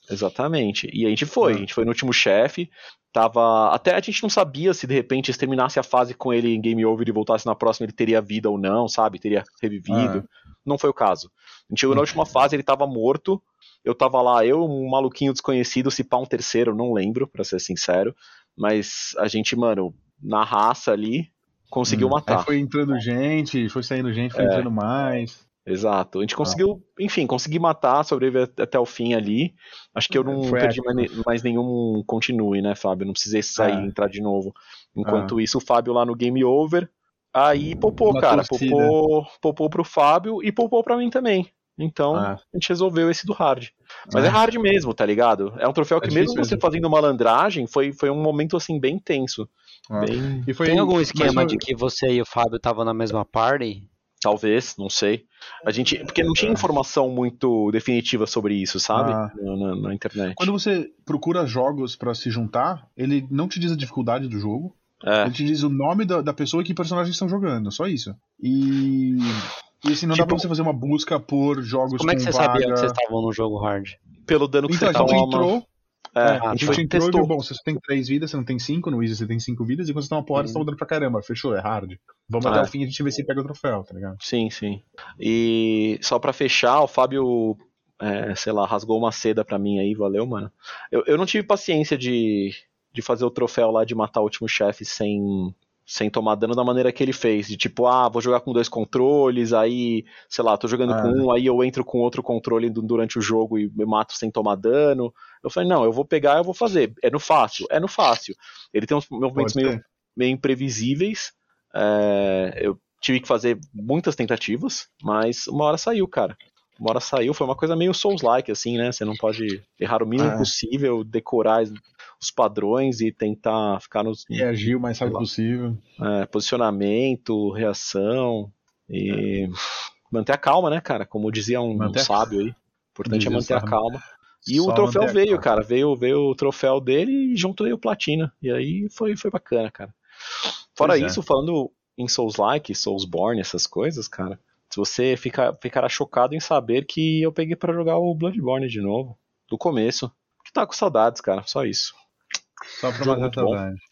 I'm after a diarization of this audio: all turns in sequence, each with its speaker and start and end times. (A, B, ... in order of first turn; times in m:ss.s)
0:00.1-0:22.5 A
0:01.4-0:01.7 B
0:09.9-0:10.3 B
0:21.9-0:25.4 B
0:24.3-0:24.7 A
0:25.7-0:50.5 A
0:30.1-0:31.1 B
0:33.6-0:33.9 B
0:35.0-0:35.4 B
0:38.1-0:39.0 B
0:42.1-0:42.4 B
0:44.1-0:44.4 B
0:46.0-0:46.6 B
0:49.9-0:51.6 B
0:50.6-0:53.9 C
0:51.2-0:51.5 A
0:54.2-1:00.5 A
0:56.0-0:56.7 B
0:58.9-0:59.4 B
1:00.4-1:13.0 B
1:05.0-1:05.3 A
1:10.1-1:10.4 A
1:12.0-1:14.0 C
1:14.3-1:15.6 A
1:14.7-1:15.7 B
1:14.8-1:15.3 C
1:16.2-1:17.3 A
1:16.2-1:24.2 B
1:16.4-1:16.9 C
1:20.4-1:20.6 A
1:22.4-1:22.7 A
1:24.2-2:05.2 A
1:40.9-1:41.2 B
1:49.4-1:49.8 B
2:00.2-2:00.5 B
2:04.3-2:05.8 B
2:06.0-2:09.5 A
2:10.1-2:20.0 A
2:11.8-2:12.2 B
2:13.1-2:13.8 B
2:14.5-2:15.5 B
2:20.8-2:32.0 A
2:20.8-2:21.2 B
2:32.8-2:33.8 B
2:33.0-2:33.6 A